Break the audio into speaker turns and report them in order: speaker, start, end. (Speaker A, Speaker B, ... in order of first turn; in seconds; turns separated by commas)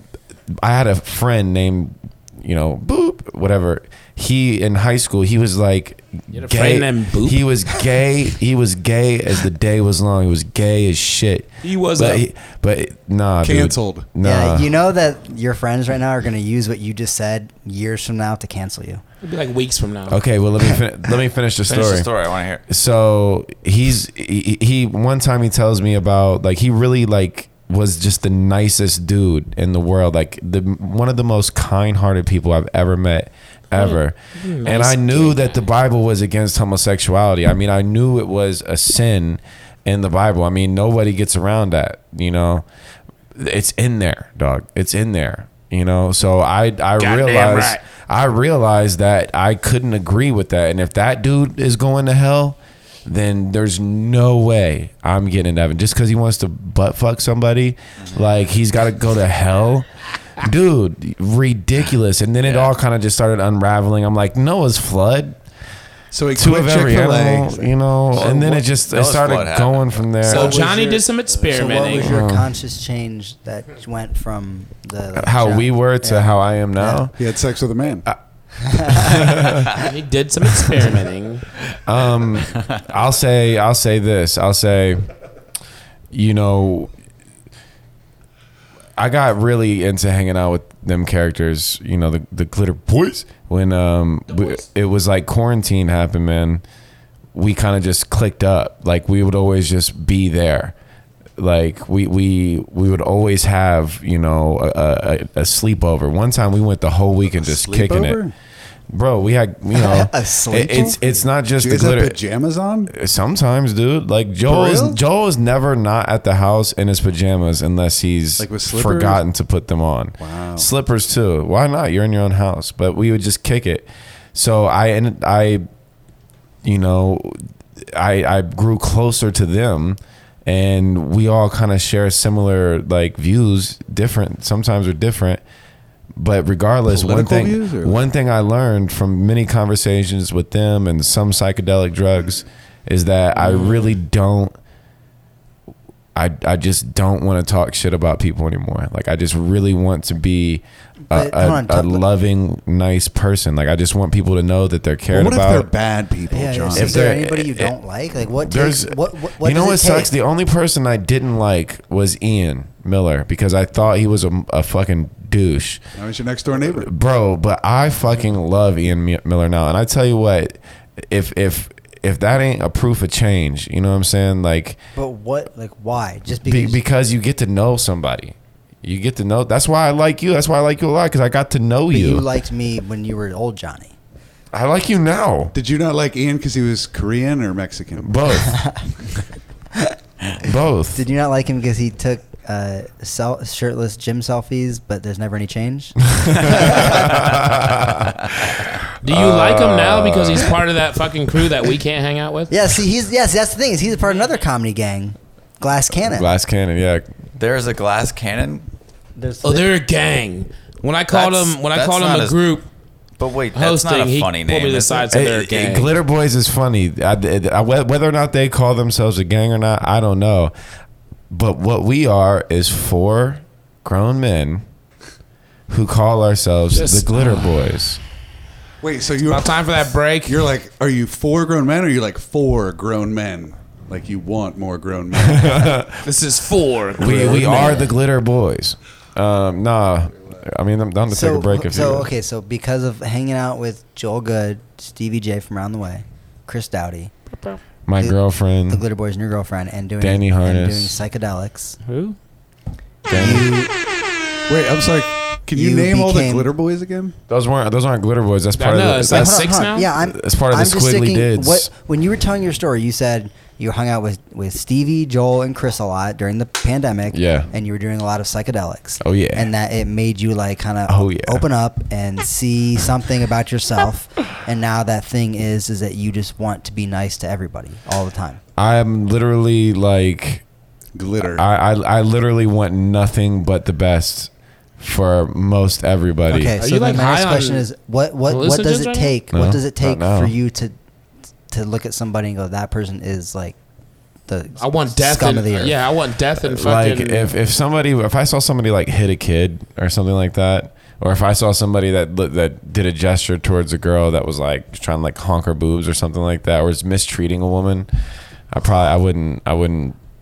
Speaker A: 0.5-14.7, Speaker B: 6.3-7.4, Speaker B: 11.6-12.2, Speaker C: 13.4-14.1, Speaker D: 14.2-19.0, Speaker B: 19.2-20.2, Speaker A: 20.1-22.1, Speaker E: 21.7-22.6, Speaker A: 22.7-42.7, Speaker B: 33.7-35.6, Speaker A: 43.4-65.4, Speaker B: 47.0-47.8, Speaker E: 62.4-62.7, Speaker C: 66.1-67.7, Speaker A: 66.3-70.6, Speaker E: 68.1-70.1, Speaker B: 70.2-72.2, Speaker C: 70.3-71.0, Speaker D: 71.4-77.1, Speaker A: 71.9-72.5, Speaker A: 75.2-77.2, Speaker C: 77.1-78.1, Speaker D: 78.6-79.7, Speaker A: 78.9-79.7, Speaker B: 79.8-81.5, Speaker A: 81.8-85.1, Speaker E: 82.5-82.8, Speaker A: 86.1-86.9, Speaker A: 89.0-96.6, Speaker A: 97.3-100.8, Speaker A: 101.4-108.2, Speaker C: 107.4-108.3, Speaker A: 108.9-112.2, Speaker D: 109.7-111.0, Speaker C: 111.6-112.9, Speaker A: 112.9-125.7, Speaker C: 114.5-115.0, Speaker C: 118.4-119.2, Speaker C: 120.2-120.7, Speaker A: 126.6-135.4, Speaker A: 136.2-144.5, Speaker C: 136.9-138.0, Speaker B: 143.5-143.9, Speaker A: 146.2-155.7, Speaker D: 151.1-152.0, Speaker C: 155.1-157.1, Speaker D: 156.3-160.1, Speaker A: 156.7-157.8, Speaker A: 158.4-165.8, Speaker C: 166.0-166.9, Speaker A: 166.8-174.8, Speaker D: 174.9-176.8, Speaker A: 176.4-182.2, Speaker D: 181.9-183.9, Speaker A: 184.5-185.5, Speaker C: 185.5-188.2, Speaker A: 188.0-188.6, Speaker D: 188.4-188.9, Speaker A: 190.4-191.0, Speaker D: 190.9-197.2, Speaker A: 196.1-200.6, Speaker E: 198.3-198.7, Speaker B: 199.0-202.5, Speaker D: 202.5-206.3, Speaker A: 206.0-207.1, Speaker E: 207.4-208.7, Speaker D: 209.2-209.7, Speaker B: 209.4-212.7, Speaker E: 211.1-212.5, Speaker E: 213.2-215.2, Speaker B: 213.6-215.9, Speaker A: 215.1-220.5, Speaker A: 221.3-224.6, Speaker A: 225.7-228.0, Speaker B: 226.7-227.6, Speaker C: 228.8-235.8, Speaker B: 229.2-230.5, Speaker A: 235.2-236.0, Speaker B: 236.0-237.9, Speaker A: 237.0-242.1, Speaker D: 241.1-247.1, Speaker A: 247.9-248.8, Speaker D: 248.7-251.8, Speaker A: 250.0-251.0, Speaker B: 251.8-252.2, Speaker D: 253.1-253.7, Speaker A: 253.1-253.5, Speaker C: 254.5-257.1, Speaker D: 255.5-256.5, Speaker A: 257.3-261.7, Speaker B: 258.5-259.9, Speaker D: 259.1-278.4, Speaker A: 267.1-267.5, Speaker A: 269.0-269.5, Speaker A: 270.9-271.5, Speaker A: 278.6-280.4, Speaker C: 280.9-281.4, Speaker A: 281.2-286.6, Speaker D: 286.3-290.8, Speaker B: 286.6-287.7, Speaker B: 288.3-289.1, Speaker A: 289.3-290.4, Speaker D: 291.5-293.6, Speaker D: 294.3-295.8, Speaker B: 294.6-297.3, Speaker A: 296.4-307.9, Speaker A: 308.5-310.0